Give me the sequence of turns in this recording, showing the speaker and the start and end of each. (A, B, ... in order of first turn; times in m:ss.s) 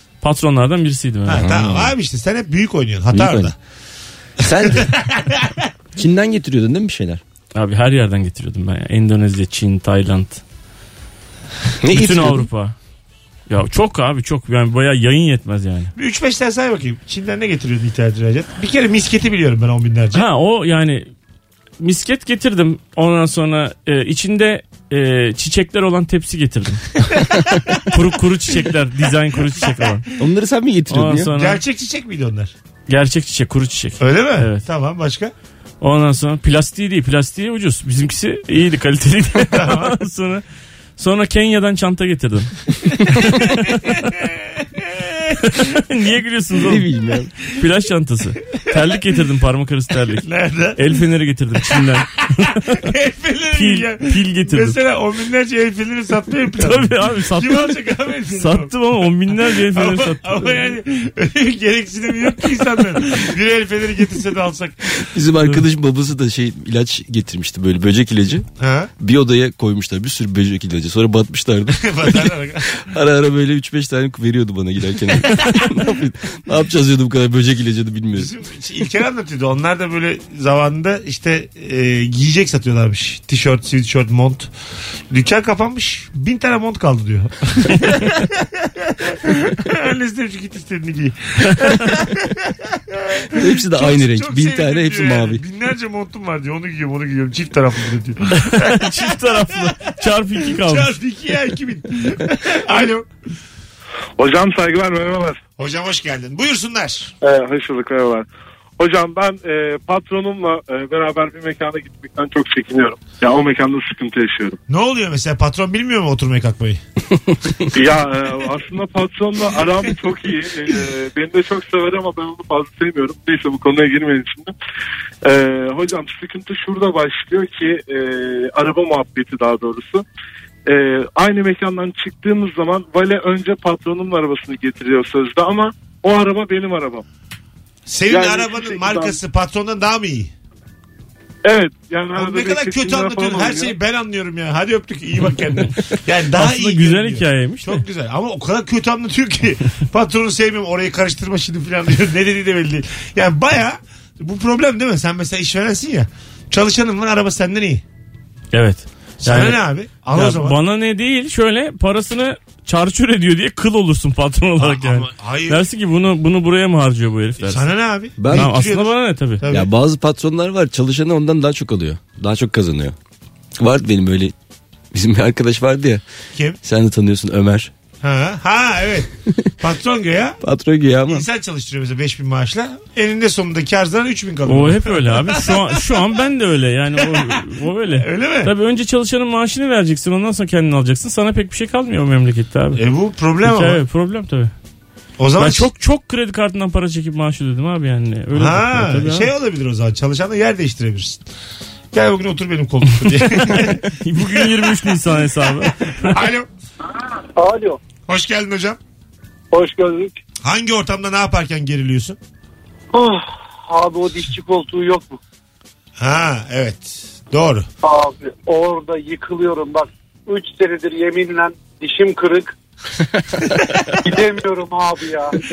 0:00.2-0:01.5 A
0:01.3-0:03.6 B
0:01.3-0:01.9 C
0:03.1-0:03.5 C
0:04.4-0:05.0 C
0:04.7-0:05.7 B
0:06.0-0:07.2 C
0:07.6-0:10.4 A
0:11.8-0:12.5 C
0:11.9-0:12.8 A
0:13.5-0:15.9 A
0:16.0-0:20.2 B
0:20.1-0:21.1 A
0:21.8-0:27.1 A
0:27.6-0:27.9 B
0:27.9-0:30.0 A
0:29.6-0:30.0 B
0:30.2-0:31.3 C
0:30.9-0:31.6 A
0:31.4-0:32.5 B
0:32.9-0:34.6 A
0:34.0-0:35.3 B
0:35.8-0:40.4 A
0:39.5-0:40.0 B
0:41.0-0:44.0 A
0:43.7-0:45.3 B
0:45.4-0:46.9 A
0:46.6-0:47.3 C
0:47.5-0:50.2 A
0:50.2-0:50.8 B
0:50.8-0:52.8 A
0:51.8-0:52.0 B
0:52.8-0:58.7 B
0:53.5-0:54.8 A
0:56.6-1:00.8 A
0:59.4-1:05.1 B
1:05.1-1:08.5 C
1:08.6-1:08.9 B
1:09.0-1:18.3 C
1:11.8-1:12.9 B
1:18.2-1:24.5 B
1:25.1-1:39.7 B
1:33.3-1:35.4 C
1:38.3-1:40.9 A
1:40.4-1:43.1 B
1:44.2-1:45.4 D
1:45.6-1:47.1 B
1:47.2-1:48.3 D
1:48.8-1:54.6 D
1:54.7-1:56.8 B
1:57.7-2:04.5 D
2:05.2-2:10.0 D
2:10.7-2:17.0 D
2:17.9-2:20.3 B
2:18.1-2:19.2 D
2:21.4-2:23.8 D
2:22.2-2:37.8 B
2:26.4-2:27.8 A
2:38.5-2:47.7 A
2:39.2-2:40.6 B
2:44.6-2:45.6 B
2:47.4-2:49.7 B
2:48.2-2:48.5 C
2:48.3-2:49.4 A
2:49.5-2:53.0 C
2:53.6-2:54.3 C
2:54.9-2:56.0 C
2:56.6-2:57.7 C
2:58.0-3:00.4 B
3:00.4-3:01.2 C
3:01.1-3:05.5 B
3:04.5-3:12.8 A
3:07.1-3:07.4 B
3:07.9-3:08.5 B
3:12.8-3:13.8 B
3:13.4-3:14.5 A
3:15.2-3:15.7 B
3:15.4-3:19.3 A
3:18.3-3:21.2 B
3:21.9-3:24.7 B
3:23.0-3:26.2 A
3:26.0-3:26.5 B
3:27.4-3:27.8 E
3:28.1-3:28.8 B
3:29.5-3:30.1 E
3:30.4-3:32.2 B
3:32.9-3:35.2 E
3:36.0-3:37.7 B
3:37.8-3:42.6 E
3:44.0-3:45.3 E